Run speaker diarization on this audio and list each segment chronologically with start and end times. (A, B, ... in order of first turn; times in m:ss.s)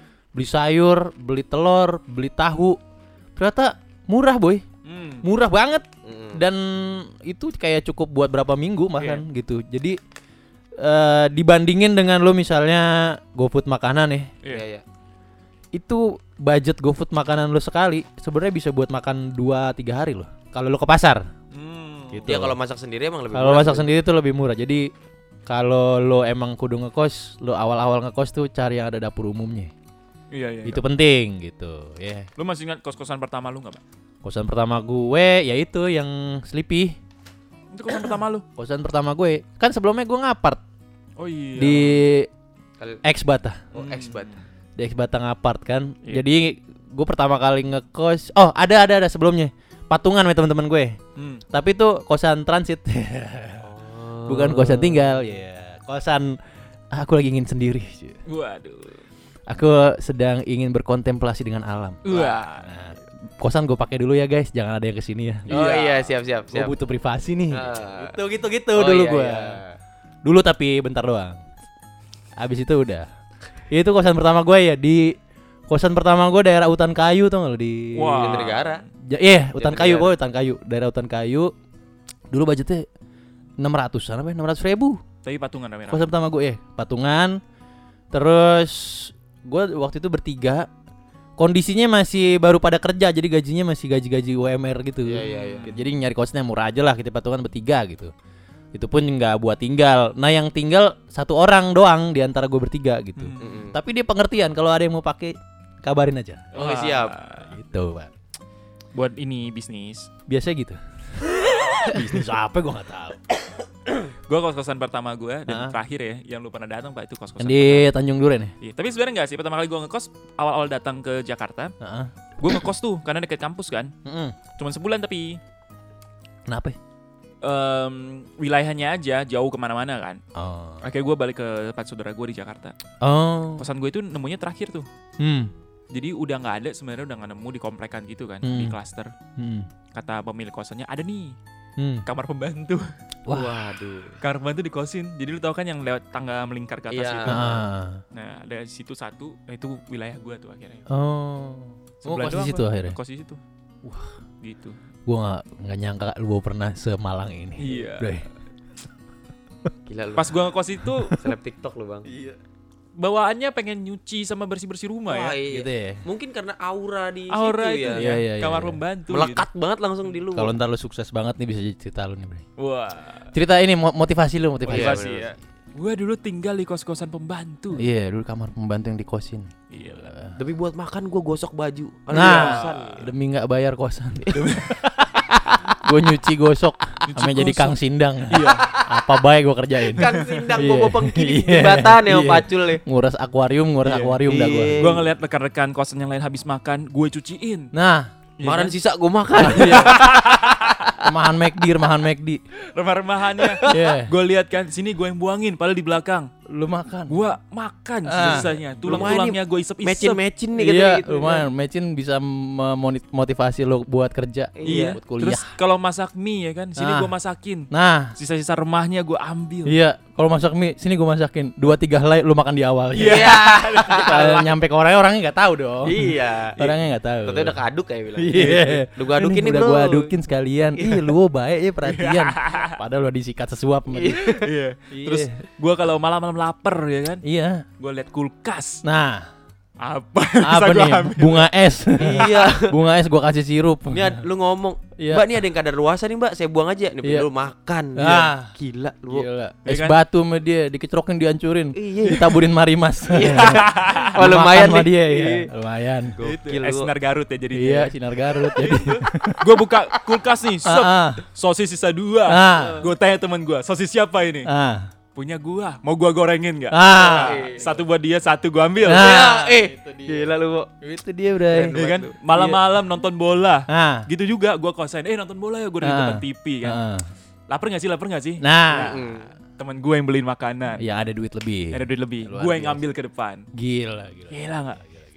0:00.4-0:02.8 A
0:03.4-0:04.6 A
0:04.8-0:05.3 B
0:05.2-0:10.0 A
0:06.0-0:06.4 C
0:09.0-0:09.2 B
0:10.8-0:14.3 A
0:14.5-0:14.8 C
0:15.7-0:21.2 A
0:21.5-0:22.3 B
0:22.1-0:22.6 A
0:22.3-0:23.9 C
0:23.3-0:24.9 A
0:25.5-0:29.7 A
0:30.3-0:30.8 B
0:30.6-0:32.3 A
0:32.4-0:33.8 B
0:34.2-0:37.0 A
0:37.7-0:38.4 B
0:37.9-0:40.6 A
0:41.2-0:42.0 B
0:41.6-0:42.3 A
0:43.0-0:43.7 A
0:43.7-0:44.4 C
0:43.7-0:44.4 B
0:44.8-0:51.0 A
0:51.2-0:51.4 B
0:51.5-0:53.7 A
0:53.6-0:55.3 C
0:54.3-0:56.4 A
0:56.9-0:58.2 A
0:58.2-0:59.0 B
0:59.5-1:05.6 A
1:02.0-1:02.9 B
1:05.5-1:06.1 B
1:05.5-1:06.7 C
1:06.5-1:09.6 A
1:07.5-1:08.2 C
1:08.8-1:09.8 C
1:10.2-1:11.4 A
1:12.4-1:13.1 A
1:13.7-1:15.1 A
1:15.7-1:18.5 A
1:17.9-1:18.9 B
1:18.2-1:18.8 C
1:19.1-1:21.5 A
1:19.6-1:20.1 C
1:22.3-1:22.9 A
1:23.6-1:25.0 A
1:25.2-1:26.1 B
1:25.9-1:27.4 A
1:28.1-1:30.7 A
1:31.4-1:38.1 A
1:35.0-1:35.8 C
1:35.2-1:35.8 B
1:38.7-1:46.6 A
1:43.2-1:43.6 B
1:43.4-1:43.8 C
1:46.5-1:47.5 B
1:46.5-1:47.2 C
1:47.4-1:48.1 A
1:48.9-1:50.1 B
1:50.3-1:53.2 A
1:54.1-1:57.9 B
1:55.5-1:55.8 A
1:57.4-1:58.5 A
1:58.6-2:01.7 B
2:01.8-2:02.5 A
2:02.4-2:03.9 B
2:04.0-2:04.4 A
2:04.6-2:05.4 B
2:06.5-2:06.8 A
2:07.4-2:10.2 B
2:10.4-2:10.9 A
2:10.8-2:12.8 B
2:13.0-2:13.7 A
2:13.6-2:14.9 B
2:15.2-2:15.5 A
2:15.9-2:19.1 B
2:18.4-2:18.8 A
2:19.4-2:19.7 A
2:19.9-2:21.4 B
2:21.8-2:22.0 A
2:22.0-2:22.9 B
2:23.3-2:24.2 C
2:24.2-2:27.6 B
2:26.9-2:27.6 C
2:27.3-2:28.0 A
2:28.1-2:30.8 B
2:30.9-2:33.0 A
2:32.0-2:33.4 B
2:33.8-2:34.1 A
2:34.4-2:34.8 B
2:35.1-2:38.3 A
2:37.6-2:38.1 B
2:39.9-2:40.4 C
2:40.2-2:41.2 B
2:41.2-2:42.1 C
2:42.1-2:42.4 A
2:43.0-2:45.4 B
2:45.1-2:48.0 C
2:45.5-2:46.0 A
2:47.3-2:49.5 B
2:47.9-2:48.8 A
2:49.1-2:50.6 C
2:50.3-2:52.4 A
2:52.6-2:53.3 B
2:53.3-2:55.1 A
2:54.6-2:57.9 B
2:54.7-2:55.3 C
2:57.8-3:00.4 A
2:59.7-3:00.1 B
3:00.4-3:03.1 C
3:02.1-3:04.7 A
3:02.1-3:03.1 B
3:04.3-3:04.6 C
3:04.4-3:04.8 B
3:05.8-3:15.0 A
3:07.1-3:07.8 B
3:08.3-3:08.7 B
3:08.4-3:09.2 C
3:09.8-3:12.8 C
3:10.1-3:10.4 B
3:13.8-3:14.2 B
3:14.2-3:15.0 C
3:14.8-3:17.7 B
3:17.7-3:18.1 A
3:18.4-3:18.8 B
3:18.4-3:20.2 C
3:19.4-3:20.0 A
3:19.4-3:21.0 B
3:21.0-3:22.4 A
3:22.7-3:26.3 B
3:23.4-3:23.8 C
3:23.7-3:24.1 A
3:26.5-3:27.2 A
3:27.1-3:30.2 B
3:28.1-3:29.1 A
3:28.2-3:31.5 C
3:30.6-3:35.5 A
3:34.6-3:35.0 C
3:34.6-3:39.8 B
3:36.8-3:37.1 A
3:37.7-3:38.1 A
3:39.7-3:47.6 A
3:43.0-3:44.5 B
3:43.0-3:44.3 C
3:45.8-3:50.1 C
3:48.2-3:54.2 A
3:48.3-3:48.8 B
3:50.7-3:51.2 C
3:51.8-3:52.8 B
3:53.9-3:54.5 C
3:54.2-3:57.2 B
3:54.9-3:55.3 A
3:57.2-3:57.6 A
3:57.8-3:58.8 B
3:58.8-3:59.3 A
3:59.8-4:01.5 B
4:00.4-4:04.2 A
4:02.0-4:02.8 C
4:03.9-4:09.3 C
4:05.0-4:05.3 A
4:08.0-4:08.5 A
4:09.1-4:13.6 A
4:09.6-4:10.0 B
4:11.7-4:12.4 C
4:13.1-4:15.5 C
4:13.2-4:14.1 B
4:14.2-4:16.2 A
4:16.2-4:16.9 C
4:16.2-4:24.5 B
4:17.5-4:19.4 A
4:20.6-4:21.2 A
4:22.3-4:22.8 A
4:22.6-4:22.9 C
4:24.5-4:24.9 A
4:25.2-4:29.3 B
4:26.7-4:27.4 A
4:27.0-4:27.8 C
4:28.8-4:31.8 A
4:28.9-4:30.7 C
4:31.5-4:32.6 C
4:31.7-4:36.9 B
4:33.7-4:34.1 A
4:35.8-4:37.1 A
4:37.5-4:40.8 B
4:38.4-4:39.0 A
4:38.7-4:39.3 C
4:40.8-4:42.8 A
4:41.7-4:43.5 B
4:43.6-4:44.4 A
4:44.3-4:44.8 B